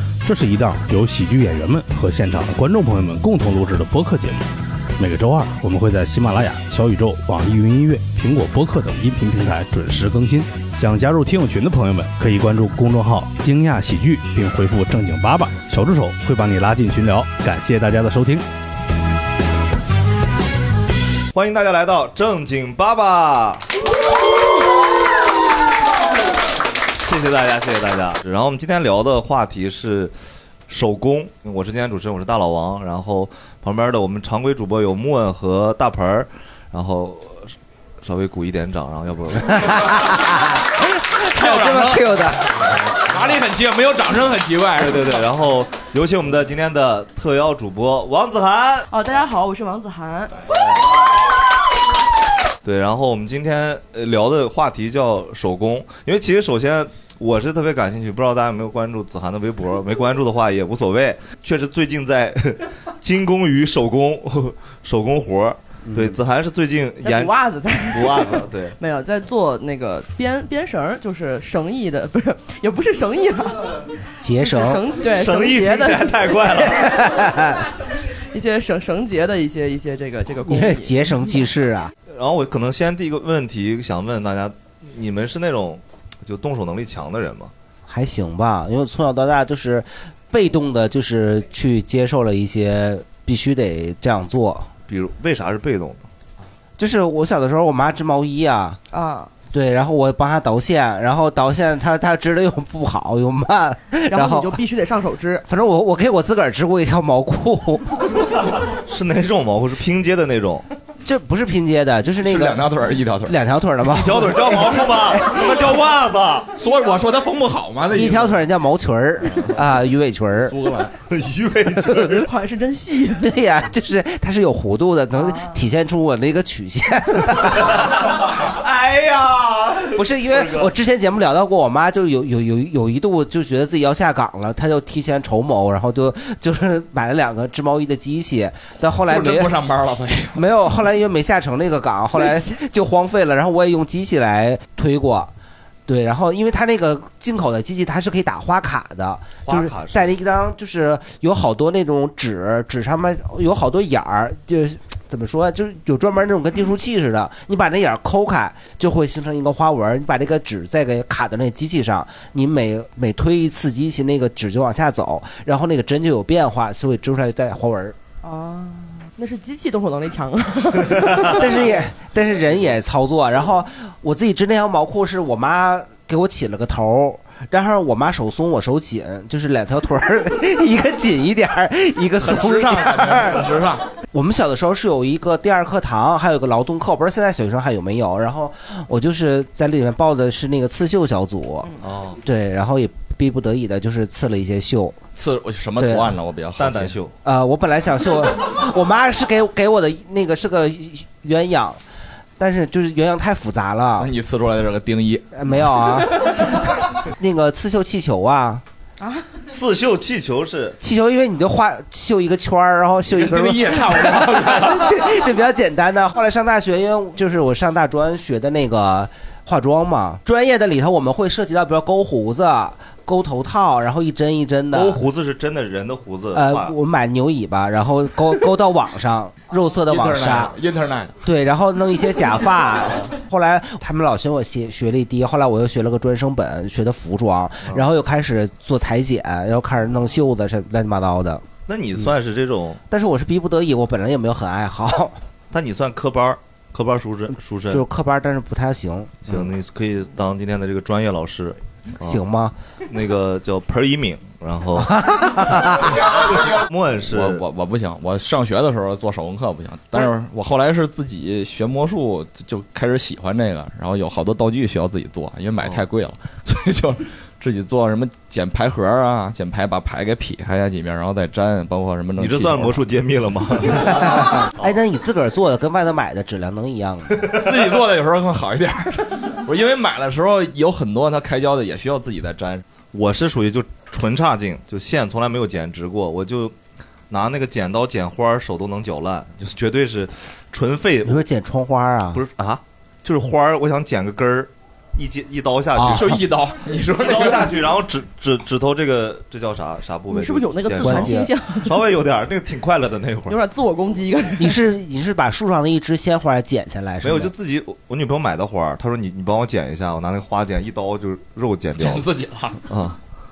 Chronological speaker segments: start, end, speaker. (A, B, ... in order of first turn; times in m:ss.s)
0:00.2-0:18.4 A
0:21.3-0:23.6 B
0:27.0-0:30.1 B
0:30.7-0:39.8 B
0:39.5-0:42.4 C
0:41.4-0:42.0 D
0:43.1-0:45.1 D
0:44.8-0:48.9 B
0:48.9-0:50.3 E
0:52.6-1:07.3 B
1:05.9-1:06.2 C
1:07.0-1:13.8 E
1:07.9-1:08.8 B
1:14.2-1:14.8 C
1:14.4-1:16.4 E
1:15.0-1:16.8 B
1:16.7-1:17.7 C
1:18.2-1:21.1 E
1:20.4-1:21.9 C
1:22.1-1:27.5 B
1:27.9-1:34.7 C
1:34.9-1:36.1 B
1:36.8-1:38.8 C
1:38.9-1:39.3 E
1:39.5-1:44.6 C
1:44.1-1:45.4 E
1:45.4-1:48.0 C
1:48.8-1:50.7 B
1:51.0-1:52.7 C
1:52.2-1:53.4 D
1:53.2-1:55.4 C
1:53.9-1:56.5 B
1:56.6-1:58.4 D
1:57.9-2:00.5 C
2:00.4-2:00.9 D
2:01.1-2:02.2 B
2:02.1-2:03.3 E
2:03.2-2:07.8 C
2:05.2-2:05.5 E
2:08.3-2:10.7 B
2:09.9-2:19.5 C
2:19.0-2:20.4 D
2:20.3-2:25.3 C
2:25.9-2:48.0 C
2:29.4-2:30.1 B
2:48.2-2:51.4 E
2:51.3-3:03.5 C
3:02.2-3:03.8 D
3:04.1-3:11.7 C
3:11.8-3:12.2 B
3:12.2-3:15.0 C
3:15.2-3:16.9 D
3:15.8-3:16.2 C
3:16.6-3:17.1 B
3:17.2-3:21.8 C
3:22.4-3:24.1 C
3:24.0-3:25.3 D
3:25.3-3:28.6 C
3:29.0-3:29.2 E
3:29.5-3:30.8 B
3:30.8-3:45.0 C
3:33.1-3:35.1 D
3:44.7-3:46.7 B
3:46.3-3:50.5 C
3:49.8-3:51.1 D
3:51.2-4:01.5 C
4:01.7-4:02.8 B
4:02.9-4:05.2 C
4:05.5-4:07.8 B
4:07.7-4:09.3 C
4:09.2-4:12.2 B
4:12.0-4:12.5 C
4:12.9-4:15.0 B
4:14.8-4:16.0 C
4:16.4-4:17.4 B
4:17.1-4:32.8 D
4:32.2-4:34.3 B
4:34.6-4:37.3 C
4:37.4-4:42.6 D
4:42.9-4:46.5 B
4:47.1-4:51.2 B
4:51.0-4:52.2 C
4:52.1-4:56.2 B
4:55.8-4:56.1 C
4:55.8-4:57.6 D
4:56.9-5:03.4 B
5:00.1-5:01.9 E
5:00.8-5:01.3 C
5:03.3-5:04.6 E
5:04.4-5:07.3 C
5:07.0-5:12.1 B
5:11.8-5:12.6 D
5:12.7-5:13.0 B